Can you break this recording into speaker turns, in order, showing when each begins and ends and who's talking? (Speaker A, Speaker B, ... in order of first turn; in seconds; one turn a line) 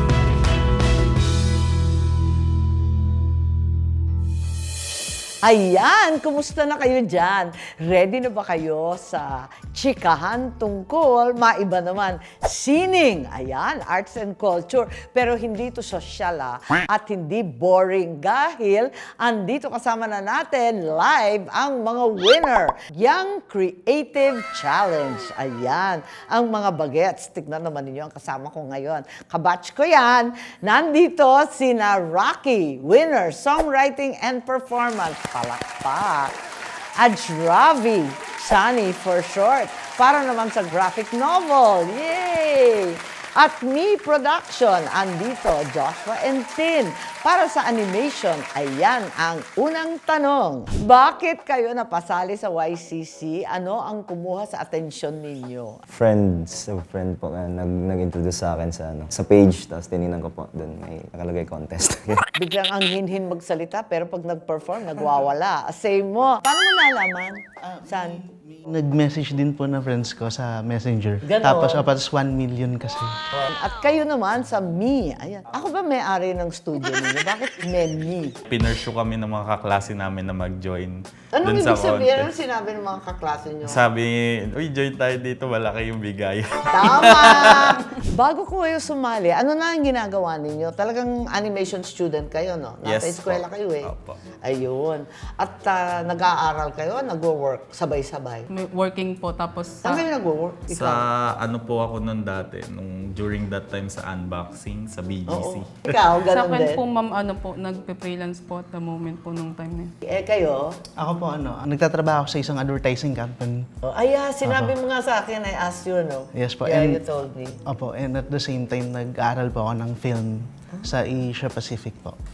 Speaker A: 5.4-36.3
Speaker A: 37.0-55.8
Speaker B: 55.9-62.3
Speaker A: 62.4-68.2
Speaker C: 67.6-73.2
Speaker A: 71.2-71.8
Speaker A: 73.3-78.3
Speaker D: 78.5-82.3
Speaker A: 81.3-83.8
Speaker D: 83.7-87.8
Speaker A: 86.7-93.9
Speaker D: 92.8-94.2
Speaker A: 94.4-98.5
Speaker E: 98.5-100.0
Speaker A: 99.8-101.0
Speaker D: 100.7-105.7
Speaker A: 105.3-106.8
Speaker E: 106.2-109.9
Speaker A: 110.0-110.8
Speaker C: 111.0-113.7
Speaker A: 113.8-117.6
Speaker C: 114.4-114.7
Speaker C: 116.3-117.0
Speaker C: 117.7-122.2